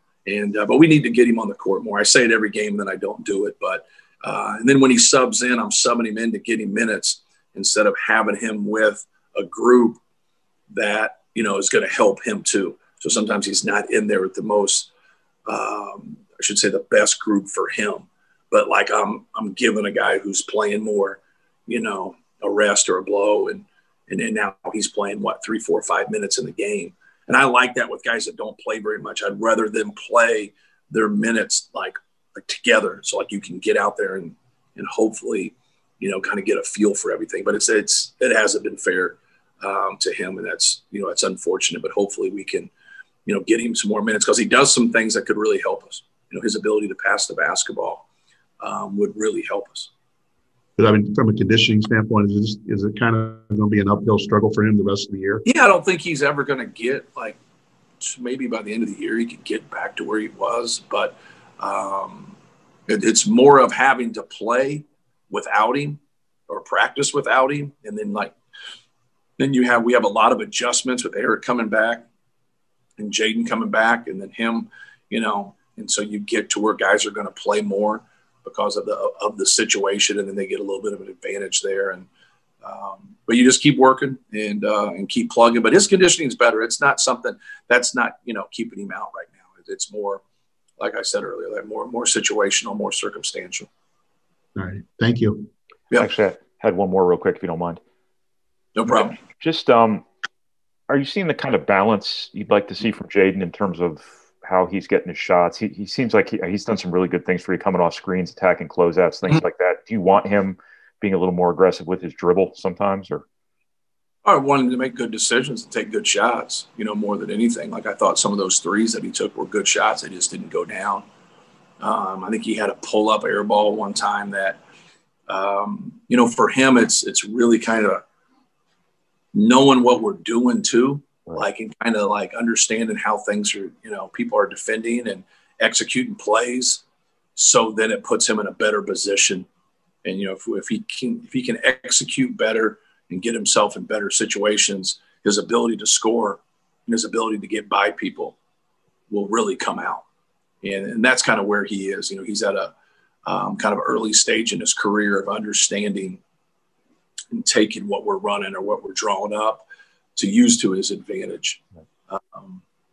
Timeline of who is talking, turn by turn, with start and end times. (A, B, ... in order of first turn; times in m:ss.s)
0:00.2-0:10.0 A
0:10.7-0:14.9 A
0:15.5-0:42.7 A
0:43.3-0:48.0 A
0:48.6-0:49.9 A
0:50.8-0:55.4 B
0:55.4-0:57.4 A
0:58.0-1:02.4 A
1:02.9-1:08.3 A
1:09.4-1:12.1 A
1:13.0-1:22.1 A
1:22.6-1:30.2 A
1:30.8-1:33.7 A
1:34.6-1:35.5 B
1:36.0-1:37.8 C
1:38.8-1:39.2 A
1:39.0-1:40.0 C
1:40.9-1:53.2 C
1:54.2-2:01.0 A
2:01.8-2:04.6 A
2:05.3-2:08.0 A
2:09.3-2:16.8 A
2:17.4-2:19.5 A
2:20.0-2:28.4 A
2:29.1-2:30.0 A
2:30.6-2:32.7 A
2:33.3-2:36.2 A
2:37.3-2:39.6 A
2:40.2-2:42.6 A